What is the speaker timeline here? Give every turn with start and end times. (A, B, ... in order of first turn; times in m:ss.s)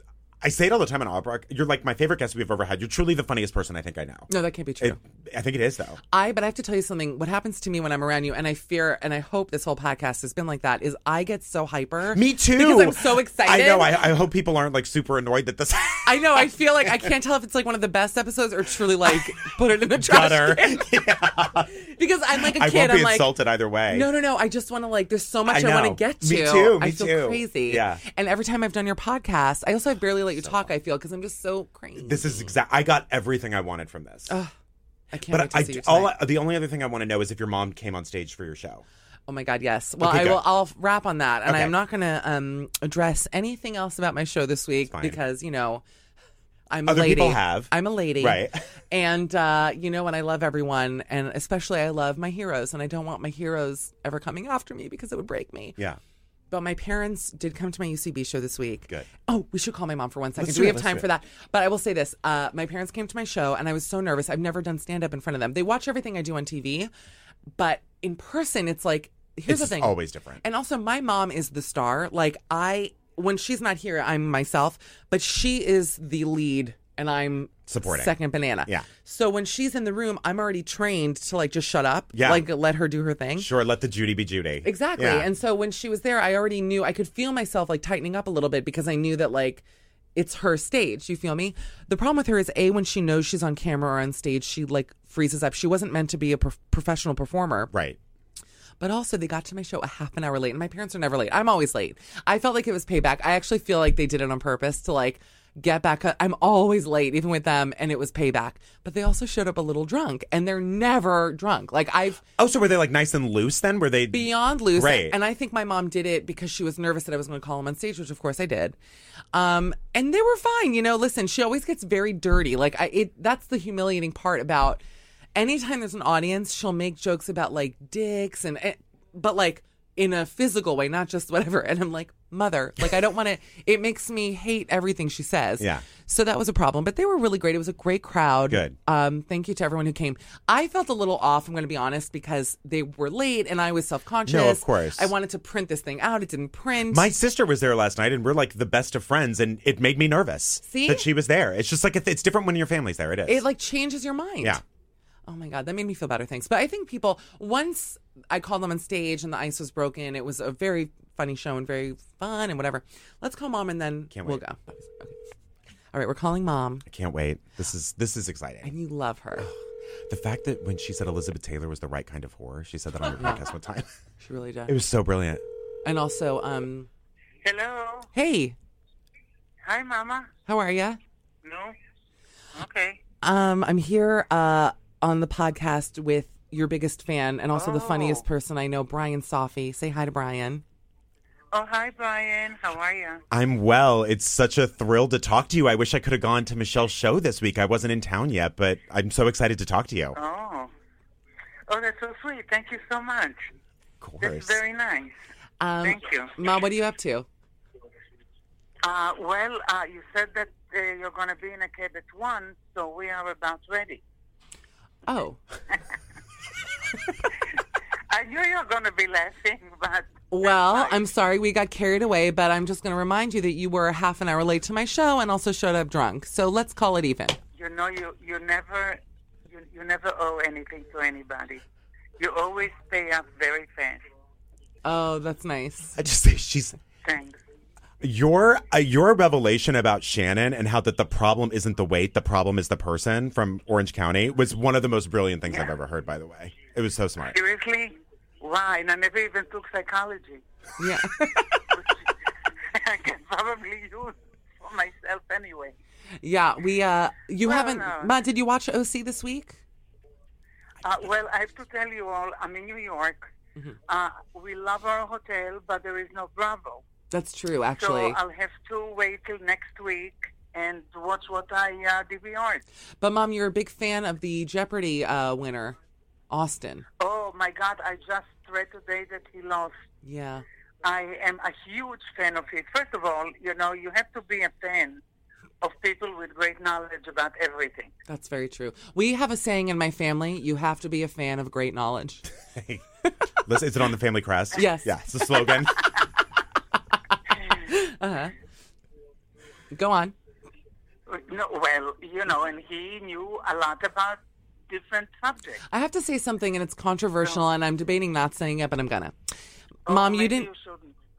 0:00.4-0:04.3 A
0:04.3-0:05.0 B
0:04.8-0:06.0 A
0:06.1-0:14.0 B
0:12.1-0:17.1 A
0:16.0-0:21.0 B
0:19.9-0:21.7 A
0:21.7-0:23.3 B
0:22.3-0:24.1 A
0:23.9-0:32.5 B
0:25.4-0:28.0 A
0:30.4-0:30.7 A
0:32.0-0:34.3 A
0:35.1-0:36.2 B
0:35.3-0:38.8 A
0:39.3-0:45.8 B
0:40.0-0:40.4 A
0:41.4-0:41.7 A
0:44.8-0:45.2 A
0:46.7-0:55.8 B
0:46.9-0:48.6 A
0:56.5-1:06.9 B
1:00.4-1:01.1 A
1:07.6-1:23.5 B
1:09.5-1:10.4 A
1:17.7-1:18.9 A
1:22.1-1:22.5 A
1:23.4-1:25.3 A
1:24.6-1:29.6 B
1:30.1-1:37.7 B
1:37.7-1:38.0 A
1:38.8-1:52.2 B
1:52.4-1:55.2 A
1:54.1-1:58.8 B
1:59.3-2:04.8 B
2:05.3-2:27.1 B
2:15.6-2:15.8 A
2:18.5-2:18.8 A
2:24.2-2:25.1 A
2:26.9-2:33.4 A
2:30.6-2:31.1 B
2:33.3-2:34.6 B
2:35.3-2:45.2 B
2:44.1-2:44.4 A
2:45.9-2:46.8 B
2:46.8-2:48.7 A
2:48.6-2:49.5 B
2:50.1-2:53.9 A
2:53.2-2:53.4 B
2:54.2-2:54.8 B
2:54.7-2:55.4 A
2:55.8-2:56.9 B
2:57.4-2:58.1 C
2:58.1-2:58.5 B
2:59.6-3:00.3 C
3:00.5-3:01.0 B
3:01.4-3:01.7 C
3:02.5-3:03.0 C
3:03.2-3:10.6 B
3:07.5-3:08.2 C
3:11.5-3:13.2 C
3:13.3-3:20.2 A
3:20.1-3:20.7 C
3:21.7-3:23.4 C
3:24.0-3:24.6 A
3:24.2-3:25.1 C
3:25.6-3:27.3 B
3:25.8-3:26.4 C
3:28.8-3:34.0 C
3:35.1-3:35.4 B
3:38.1-3:41.1 C
3:40.3-3:47.4 B
3:47.5-3:49.0 C
3:49.5-3:51.6 C
3:52.2-3:54.0 C
3:54.8-3:56.0 B
3:56.0-3:56.8 A
3:57.0-3:57.4 C
3:58.0-4:07.4 A
4:07.2-4:10.4 C
4:10.8-4:11.6 B
4:12.7-4:15.7 C
4:16.2-4:19.6 B
4:17.4-4:18.1 C
4:20.8-4:23.3 C
4:23.9-4:26.8 C
4:27.1-4:28.2 B
4:27.8-4:32.6 C
4:33.0-4:35.8 B
4:36.3-4:36.8 B
4:37.0-4:39.7 C
4:40.0-4:40.4 B
4:40.8-4:45.0 C
4:45.6-4:47.9 C
4:48.1-4:52.2 B
4:52.5-4:52.8 A
4:53.4-4:55.9 A
4:54.5-4:55.5 B
4:57.1-4:58.3 B
4:59.7-5:00.1 B
5:01.1-5:05.6 C
5:05.7-5:09.1 B
5:09.9-5:10.9 C
5:09.9-5:10.5 B